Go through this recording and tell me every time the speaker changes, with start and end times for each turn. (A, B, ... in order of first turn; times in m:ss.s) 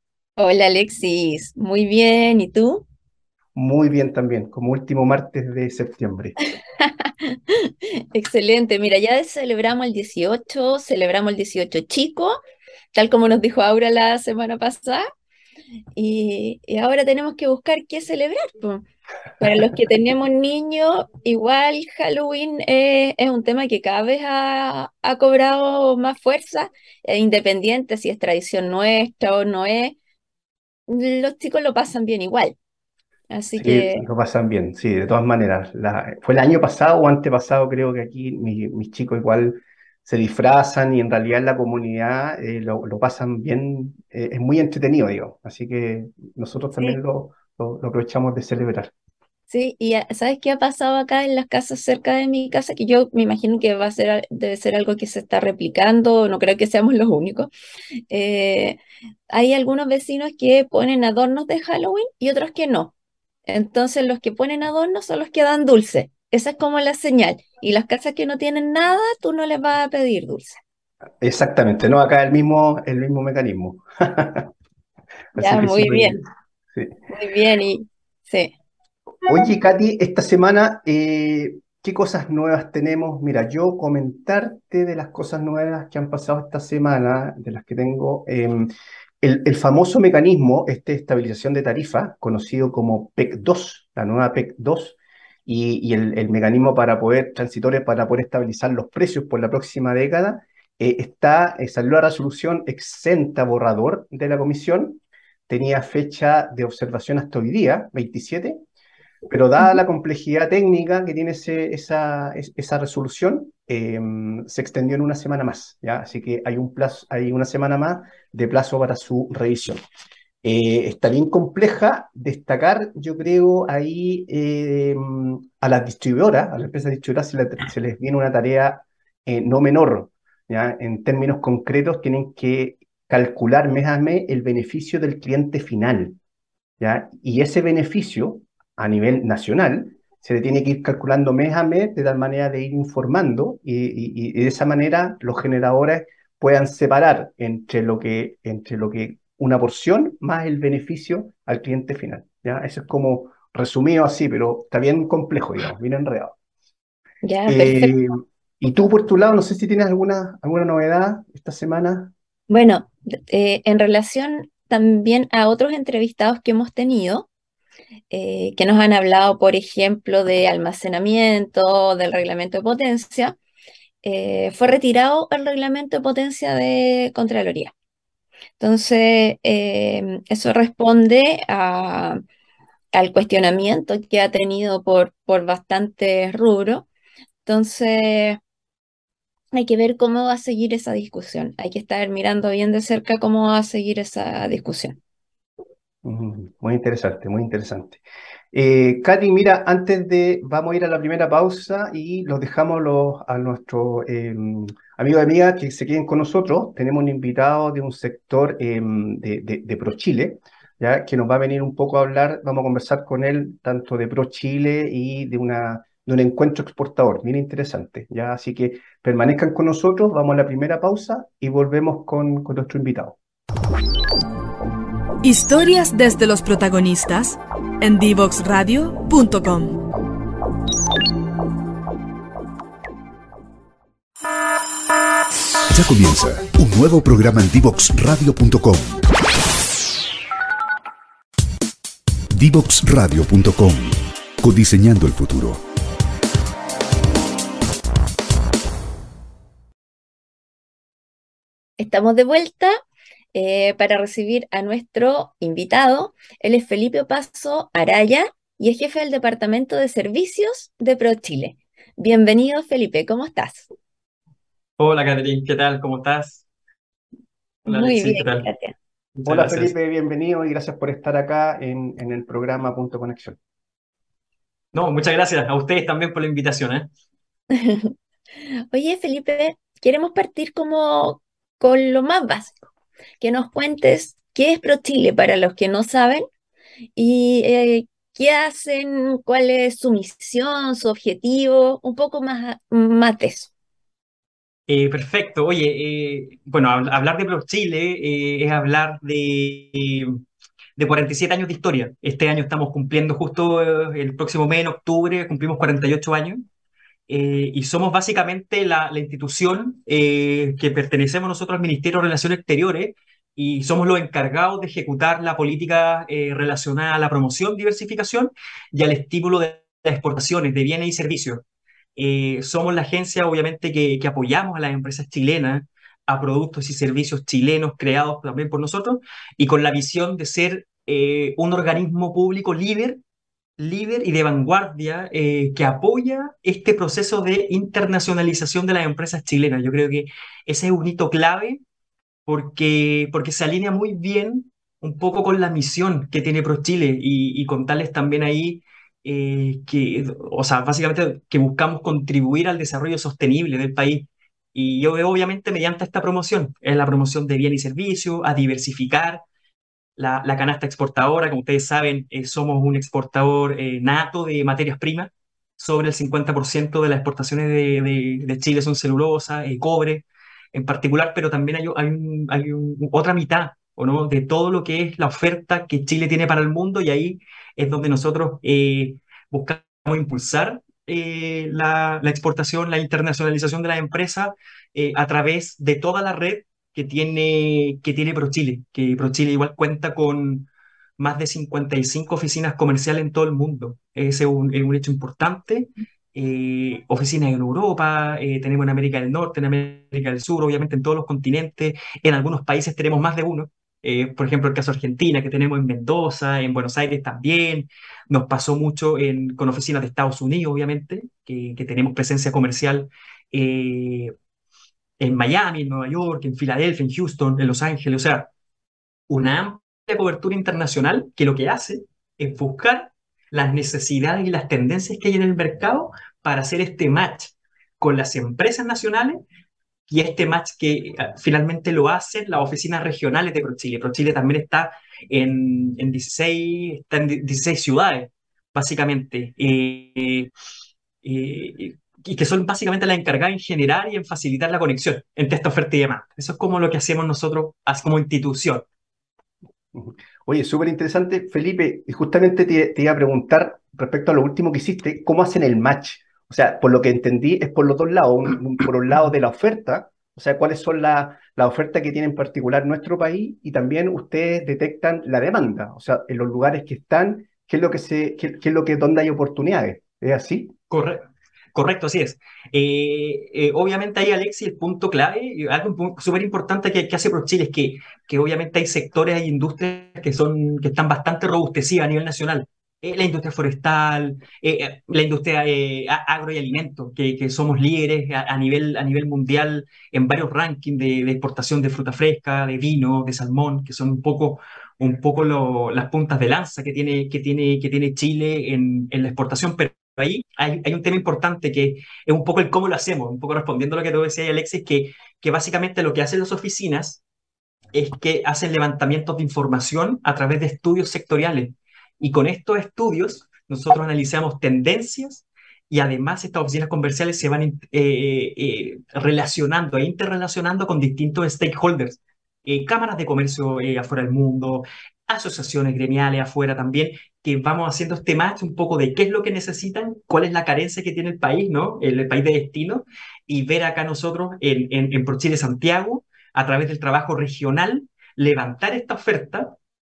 0:00.4-0:02.8 A
0:03.6-0:06.4 B
0:06.8-0:12.4 A
0:13.0-0:15.1 A
0:16.0-0:18.8 A
0:19.4-0:30.0 A
0:30.9-0:32.6 A
0:33.3-0:34.1 A
0:33.6-0:48.9 B
0:49.5-0:57.5 A
0:58.1-1:02.9 A
1:03.5-1:10.6 A
1:11.2-1:14.5 B
1:15.3-1:16.2 B
1:15.4-1:16.2 A
1:17.1-1:18.5 A
1:19.3-1:28.7 B
1:29.2-1:48.6 B
1:49.3-1:59.8 B
2:00.4-2:16.2 B
2:16.8-2:36.4 B
2:37.2-2:38.0 A
2:37.5-2:42.1 B
2:42.5-2:47.3 A
2:48.1-2:53.4 A
2:54.0-2:57.7 A
2:58.6-3:02.2 A
3:02.9-3:06.9 A
3:07.4-3:08.4 A
3:09.5-3:15.0 A
3:16.0-3:18.0 B
3:18.5-3:43.2 B
3:45.2-3:49.8 C
3:55.7-3:59.0 D
4:02.3-4:05.6 D
4:11.8-4:12.8 A
4:13.3-4:23.7 A
4:24.8-4:26.4 E
4:27.6-4:28.7 A
4:27.7-4:28.5 E
4:29.2-4:29.7 E
4:29.3-4:33.4 B
4:34.7-4:36.9 E
4:37.5-4:37.9 A
4:38.7-4:42.5 A
4:43.2-4:46.2 A
4:47.0-4:53.5 A
4:54.7-5:00.2 E
5:00.8-5:06.5 E
5:07.1-5:21.4 E
5:22.0-5:33.0 E
5:33.6-5:41.6 E
5:42.3-5:59.2 E
6:00.0-6:54.1 E
6:55.0-6:58.3 E
6:59.1-7:09.2 E
7:09.9-7:20.3 E
7:21.0-7:28.7 E
7:29.7-7:50.5 B
7:50.7-7:51.0 E
7:51.6-8:27.0 E
8:27.7-8:59.6 E